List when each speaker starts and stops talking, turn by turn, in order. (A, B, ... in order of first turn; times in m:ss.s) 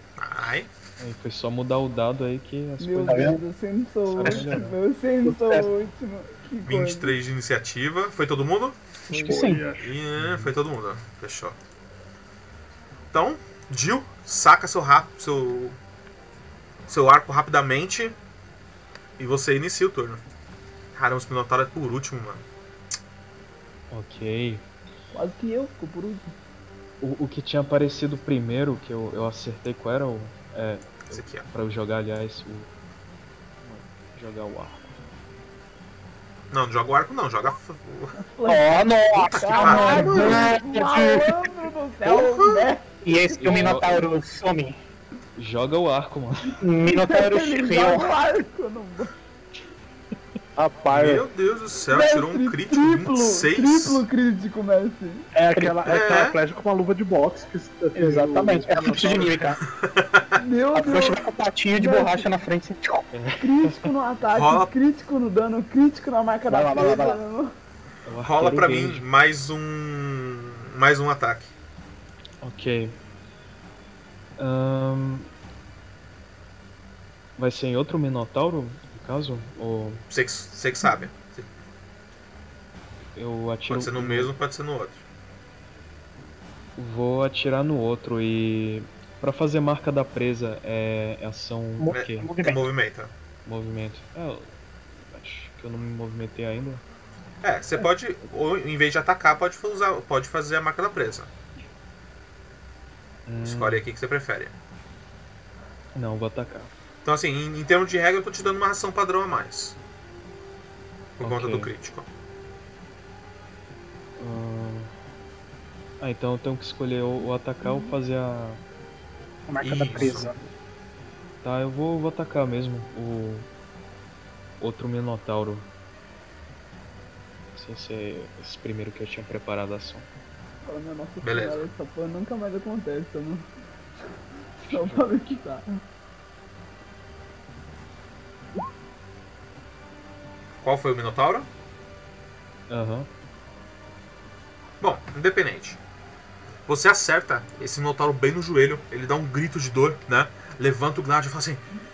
0:00.2-0:00.7 A
0:01.0-0:03.4 B
0:02.8-0:07.1 C
0:03.1-0:03.4 D
0:04.1-0:04.7 B
0:04.3-0:04.7 E
0:05.2-0:05.7 D
0:06.6-0:08.8 A
0:09.1-0:09.6 D
0:09.1-0:09.5 C
0:09.1-0:10.0 E
0:09.8-0:11.6 A
0:10.2-0:10.5 B
0:13.1-0:15.8 A
0:16.9-0:18.2 A
0:19.2-0:20.2 A
0:21.0-0:22.4 A
0:23.9-0:24.7 B
0:25.1-0:26.3 C
0:27.0-0:32.7 B
0:31.1-0:31.5 A
0:33.6-0:34.9 B
0:36.5-0:38.2 A
0:38.2-0:43.8 C
0:38.5-0:41.4 D
0:39.3-0:40.5 A
0:42.0-0:42.7 A
0:43.0-0:44.8 D
0:43.4-0:44.1 B
0:45.4-0:46.6 B
0:46.6-0:48.2 D
0:46.8-0:49.1 C
0:50.6-0:51.3 E
0:50.9-0:54.0 A
0:51.9-0:55.3 C
0:55.3-0:59.5 E
0:55.6-0:55.8 D
0:55.9-0:56.4 A
0:58.0-0:59.6 D
0:59.7-1:00.4 A
1:00.4-1:02.3 C
1:00.7-1:03.1 D
1:03.1-1:03.9 B
1:03.4-1:07.5 C
1:04.3-1:04.7 A
1:06.5-1:07.2 D
1:08.1-1:09.0 B
1:08.2-1:11.5 A
1:12.4-1:13.0 B
1:14.4-1:15.3 B
1:17.4-1:20.0 B
1:20.1-1:21.5 A
1:23.2-1:24.3 B
1:23.7-1:25.0 A
1:26.8-1:32.3 B
1:31.8-1:32.7 D
1:31.9-1:33.1 A
1:33.4-1:36.8 B
1:37.4-1:41.3 A
1:43.3-1:43.8 B
1:43.4-1:44.6 A
1:46.0-1:46.7 B
1:47.0-1:49.8 A
1:51.2-1:52.1 A
1:51.2-1:51.7 B
1:54.2-1:54.9 B
1:56.0-1:58.6 B
1:59.5-2:00.4 D
1:59.6-2:00.3 A
2:01.4-2:03.5 B
2:04.6-2:05.7 B
2:07.6-2:10.1 B
2:10.6-2:13.5 C
2:11.2-2:11.7 A
2:14.6-2:15.8 C
2:14.7-2:15.1 B
2:20.6-2:21.5 A
2:22.7-2:23.1 B
2:24.8-2:25.8 A
2:26.7-2:31.6 A